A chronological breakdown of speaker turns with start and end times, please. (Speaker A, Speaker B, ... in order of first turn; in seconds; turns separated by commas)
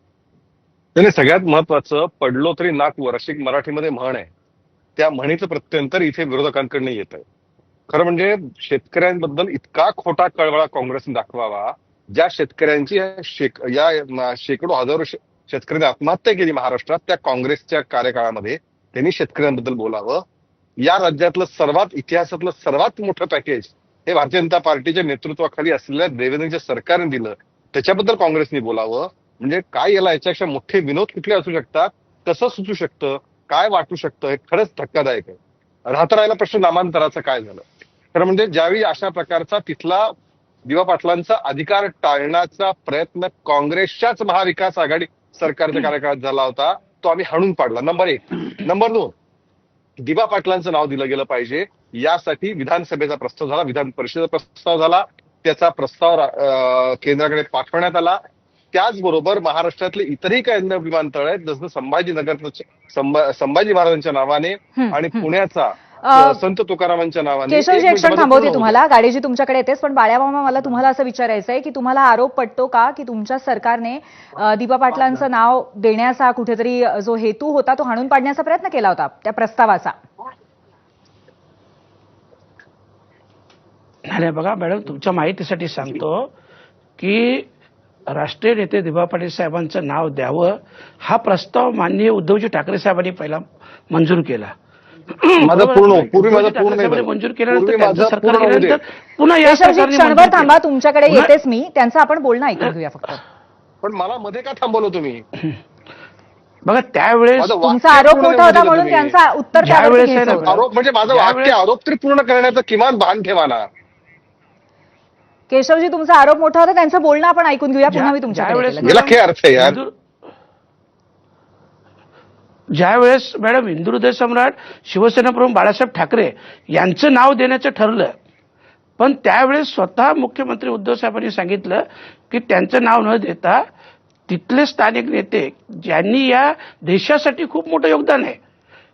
Speaker A: 0.9-4.3, Speaker A: 5.0-7.2, Speaker A: 7.9-20.2, Speaker A: 20.8-40.1, Speaker A: 40.7-49.1, Speaker A: 50.0-58.2, Speaker A: 58.7-68.8, Speaker B: 64.8-65.2, Speaker B: 66.0-66.4, Speaker B: 67.5-80.0, Speaker C: 84.0-86.3, Speaker C: 87.0-87.5, Speaker C: 88.1-94.5, Speaker C: 95.2-101.3, Speaker A: 95.4-98.8, Speaker B: 99.4-103.2, Speaker A: 103.8-105.2, Speaker C: 106.6-107.6, Speaker A: 107.4-109.2, Speaker B: 107.6-110.5, Speaker C: 109.6-111.6, Speaker A: 110.5-113.7, Speaker B: 115.5-119.0, Speaker C: 117.8-119.9, Speaker A: 118.8-119.8, Speaker C: 122.7-128.2, Speaker C: 129.0-133.6, Speaker C: 134.3-138.4